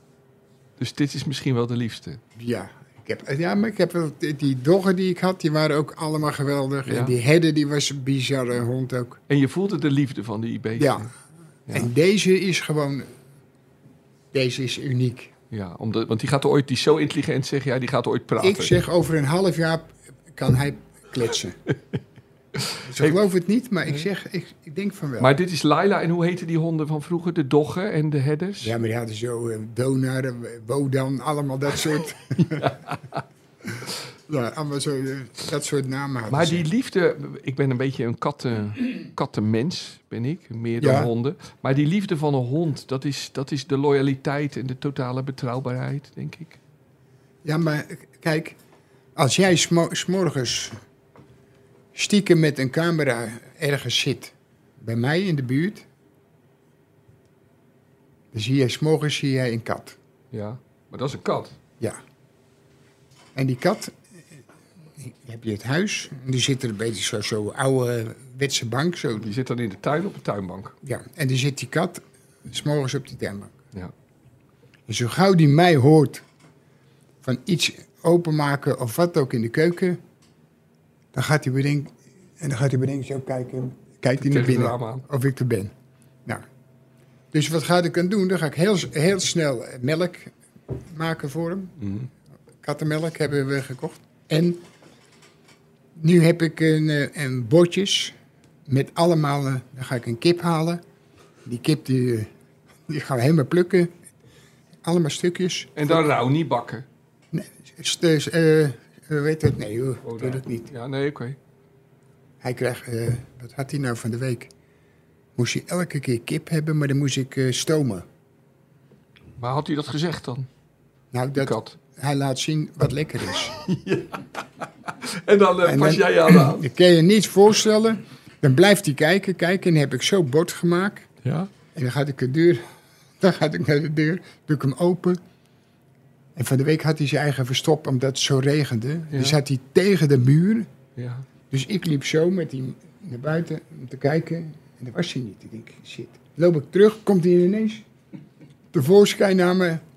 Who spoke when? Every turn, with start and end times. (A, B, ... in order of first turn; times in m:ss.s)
0:00.8-0:02.2 A
0:02.4-0:09.2 B
0:06.9-0:07.2 A
0:09.3-0:11.1 A
0:10.8-0:11.1 B
0:11.7-0:13.1 B
0:14.3-0:15.3 B
0:15.5-0:18.8 A
0:18.4-0:21.6 B
0:22.6-0:23.2 A
0:22.8-0:25.3 B
0:25.2-0:28.7 A
0:28.6-0:32.7 B
0:32.6-0:33.2 A
0:33.7-0:36.7 B
0:36.3-0:46.6 A
0:40.8-0:41.1 B
0:47.4-0:48.6 B
0:49.2-0:50.8 B
0:51.9-0:55.9 B
0:58.3-1:00.0 B
1:00.3-1:01.6 A
1:03.4-1:04.0 B
1:05.0-1:09.3 B
1:09.2-1:10.8 A
1:10.8-1:13.6 B
1:14.9-1:16.2 B
1:17.2-1:20.0 B
1:21.1-1:25.7 B
1:24.2-1:25.0 A
1:27.3-1:31.8 B
1:31.8-1:32.1 A
1:32.6-1:34.6 B
1:36.0-1:38.2 B
1:38.7-1:40.8 B
1:41.4-1:42.3 B
1:42.9-1:43.9 B
1:44.8-1:46.1 B
1:45.8-1:46.8 A
1:47.3-1:50.7 B
1:50.0-1:51.4 A
1:52.4-1:54.5 B
1:55.4-1:58.1 B
1:59.4-2:00.5 A
2:01.1-2:03.6 B
2:01.4-2:01.8 A
2:03.6-2:06.7 A
2:05.6-2:11.1 B
2:11.2-2:11.5 A
2:11.7-2:12.6 B
2:13.2-2:15.2 B
2:16.4-2:20.7 B
2:19.1-2:19.4 A
2:21.0-2:21.3 A
2:21.5-2:27.8 B
2:28.7-2:29.8 B